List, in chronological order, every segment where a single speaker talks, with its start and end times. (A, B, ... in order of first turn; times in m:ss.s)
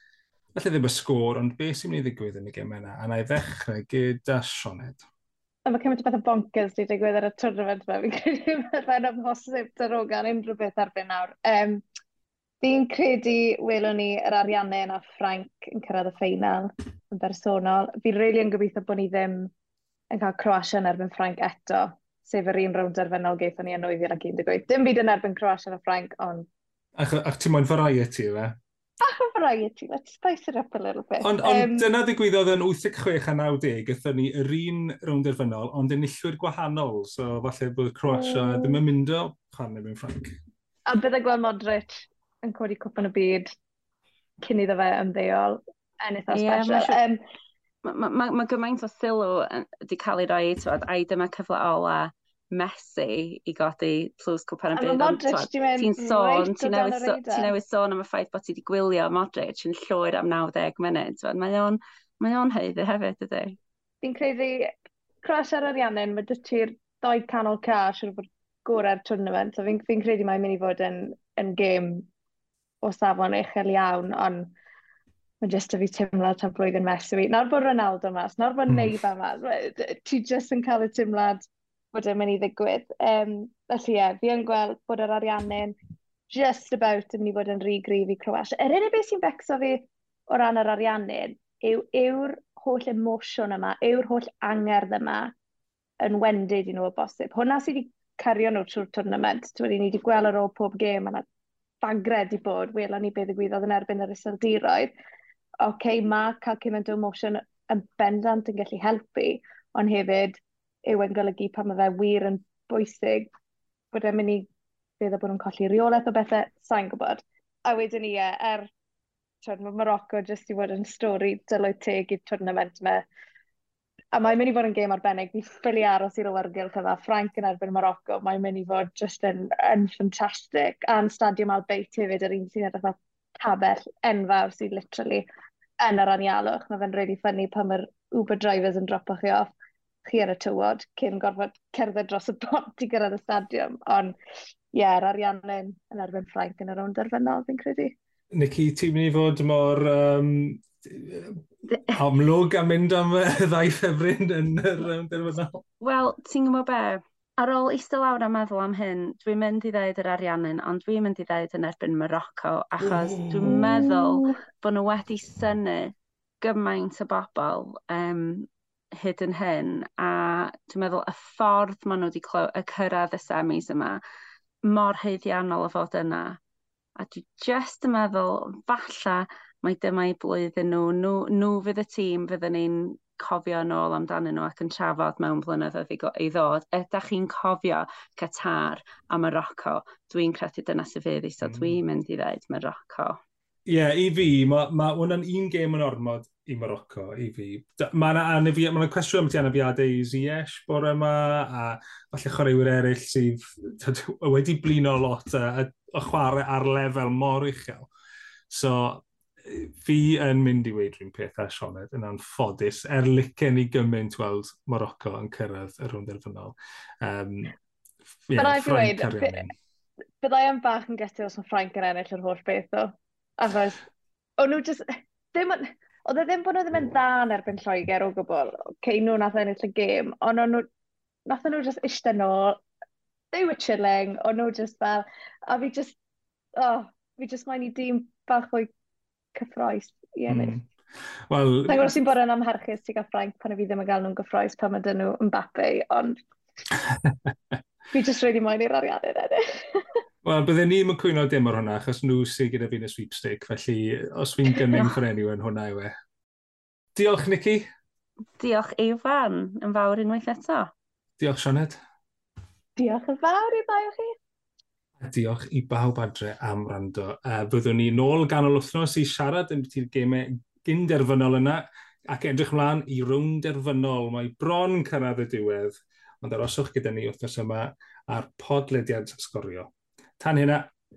0:00.5-0:05.0 A
0:05.6-0:11.8 B
0:12.6-0:19.5 B
0:20.1-0:26.5 B
0:27.0-0:28.6 A
0:29.0-0:31.9 B
0:31.2-0:40.4 A
0:38.1-0:38.8 B
0:40.9-0:43.5 B
0:44.4-0:47.2 B
0:46.3-0:47.0 C
0:47.8-1:03.6 C
0:54.7-0:57.5 B
1:04.0-1:04.7 B
1:05.2-1:12.1 B
1:12.8-1:14.5 B
1:15.4-1:25.8 B
1:18.7-1:19.0 A
1:26.3-1:35.3 B
1:36.0-1:41.2 B
1:41.8-1:44.9 B
1:45.6-1:53.3 B
1:53.9-1:54.5 B
1:55.0-1:58.7 B
1:59.4-2:03.0 B
2:04.1-2:15.2 B
2:15.8-2:19.5 B
2:20.0-2:24.2 B
2:24.7-2:28.0 B
2:28.3-2:35.6 A
2:35.8-2:54.0 C
2:42.8-2:43.7 A
2:43.5-2:44.4 B
2:54.6-2:56.4 C
2:57.0-3:13.2 C
3:11.4-3:11.8 A
3:13.7-3:27.9 A
3:28.5-3:37.5 A
3:38.3-3:39.5 A
3:38.4-3:39.4 B
3:40.2-3:43.8 B
3:44.4-3:50.7 B
3:51.3-3:52.6 B
3:53.3-3:56.0 B
3:56.6-3:58.7 B
3:59.3-4:00.6 B
4:00.3-4:00.6 A
4:01.3-4:01.9 A
4:01.7-4:06.2 B
4:06.9-4:07.3 A
4:07.9-4:09.9 B
4:10.2-4:15.9 A
4:16.9-4:17.7 A
4:18.4-4:20.7 C
4:21.2-4:21.8 A
4:22.8-4:24.1 B
4:25.0-4:40.7 A